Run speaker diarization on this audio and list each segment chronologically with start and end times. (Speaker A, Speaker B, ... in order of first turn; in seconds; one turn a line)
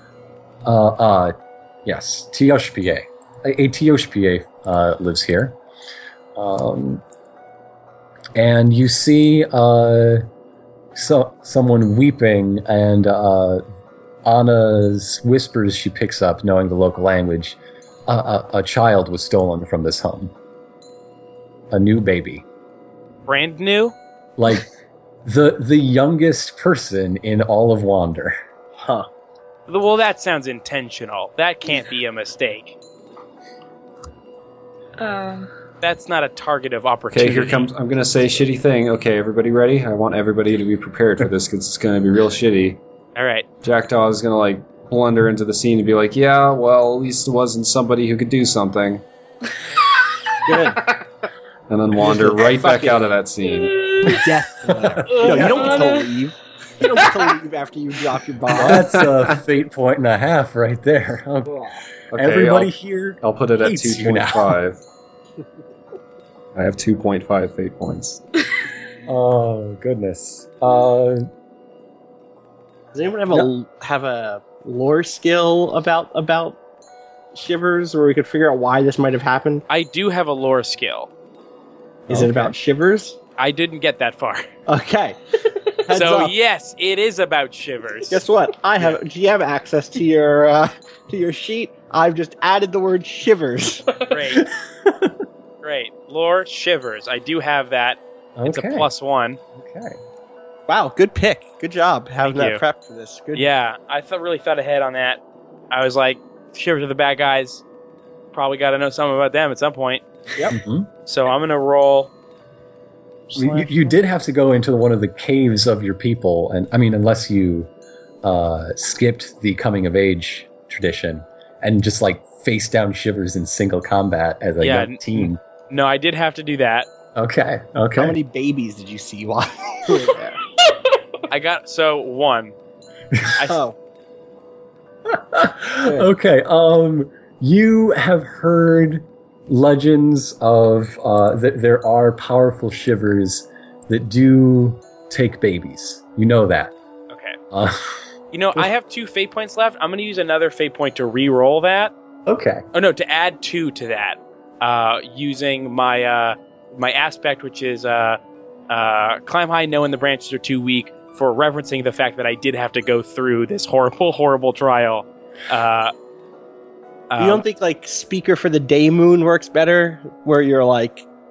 Speaker A: 0.6-5.6
Speaker A: 6.3-7.0
Speaker A: 8.3-10.2
Speaker A: 10.9-13.6
Speaker A: 14.2-20.3
Speaker A: 21.7-22.4
Speaker B: 23.2-23.9
Speaker A: 24.4-24.7
Speaker A: 25.2-28.4
Speaker C: 28.8-29.1
Speaker B: 29.7-32.8
Speaker D: 35.0-35.5
Speaker B: 35.8-37.7
Speaker E: 37.1-42.8
Speaker B: 43.1-43.5
Speaker E: 43.6-49.0
Speaker C: 50.5-50.9
Speaker E: 51.7-54.2
Speaker C: 52.0-53.1
Speaker D: 53.6-54.2
Speaker C: 54.0-58.9
Speaker A: 54.7-55.3
Speaker D: 55.0-56.1
Speaker A: 58.5-64.6
Speaker E: 58.5-59.4
Speaker C: 61.5-61.8
Speaker E: 62.1-62.7
Speaker E: 63.2-64.8
Speaker E: 66.5-68.2
Speaker A: 69.1-71.2
Speaker C: 72.9-76.6
Speaker C: 77.3-79.6
Speaker B: 79.7-81.1
Speaker C: 82.1-83.2
Speaker A: 82.1-82.5
Speaker B: 83.4-84.5
Speaker C: 84.7-85.3
Speaker C: 85.8-86.3
Speaker B: 85.9-88.2
Speaker C: 88.1-94.0
Speaker B: 94.1-94.5
Speaker A: 94.8-95.1
Speaker B: 95.6-99.4
Speaker A: 98.4-98.9
Speaker A: 99.5-100.0
Speaker C: 100.7-103.5
Speaker B: 102.2-102.6
Speaker B: 103.3-105.2
Speaker B: 105.7-107.6
Speaker B: 108.3-110.0
Speaker A: 110.5-110.9
Speaker B: 111.0-112.1
Speaker B: 113.3-113.7
Speaker A: 113.3-117.7
Speaker A: 118.2-125.4
Speaker B: 124.6-126.9
Speaker A: 127.2-128.2
Speaker C: 128.0-130.4
Speaker B: 131.3-132.5
Speaker B: 133.3-133.6
Speaker C: 133.4-133.8
Speaker A: 135.1-146.7
Speaker B: 147.1-147.4
Speaker A: 147.5-147.9
Speaker B: 148.3-151.9
Speaker A: 152.3-152.6
Speaker B: 152.7-165.9
Speaker B: 167.1-167.4
Speaker C: 167.2-171.1